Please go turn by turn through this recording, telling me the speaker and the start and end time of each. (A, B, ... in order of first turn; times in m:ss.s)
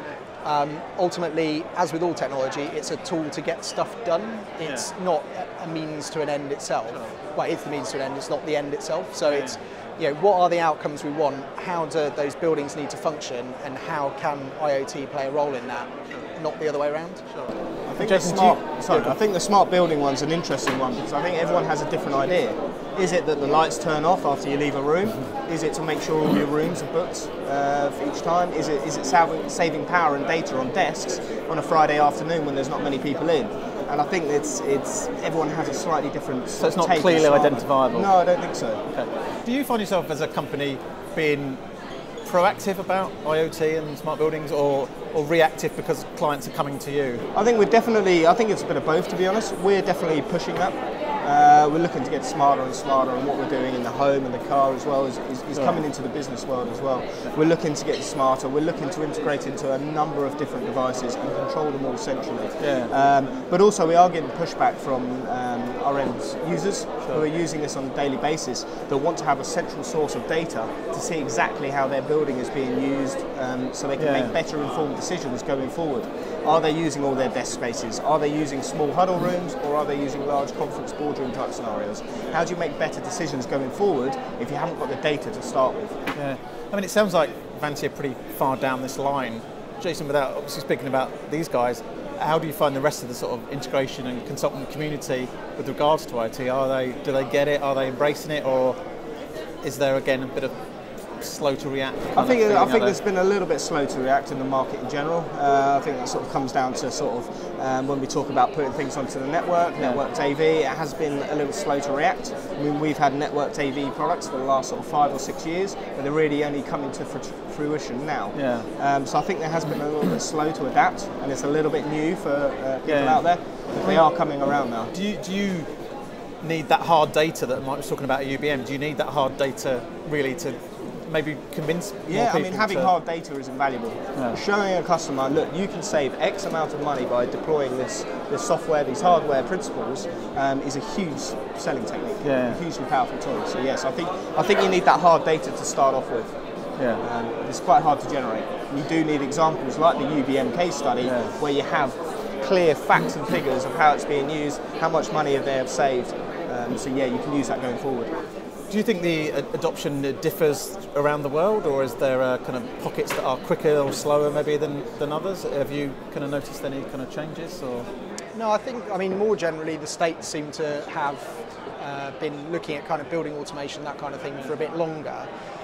0:00.4-0:17.2 A
0:04.6-0:04.9 B
0:09.3-0:09.6 B
0:17.3-0:19.2 B
0:17.8-0:38.8 C
0:36.6-0:38.1 B
0:38.9-0:41.6 B
0:42.2-0:47.2 B
0:47.3-1:26.0 C
0:55.5-0:55.8 B
1:02.6-1:02.9 B
1:14.0-1:14.4 B
1:26.1-1:38.8 B
1:39.6-1:40.5 B
1:41.2-1:43.0 B
1:42.1-2:04.9 C
1:58.3-1:58.7 B
2:02.8-2:03.2 B
2:04.9-2:05.7 B
2:06.4-2:12.9 B
2:12.1-2:26.4 C
2:22.2-2:22.6 B
2:26.8-2:27.0 B
2:27.0-2:38.1 C
2:31.0-2:31.4 B
2:38.7-2:47.9 B
2:48.3-2:55.3 A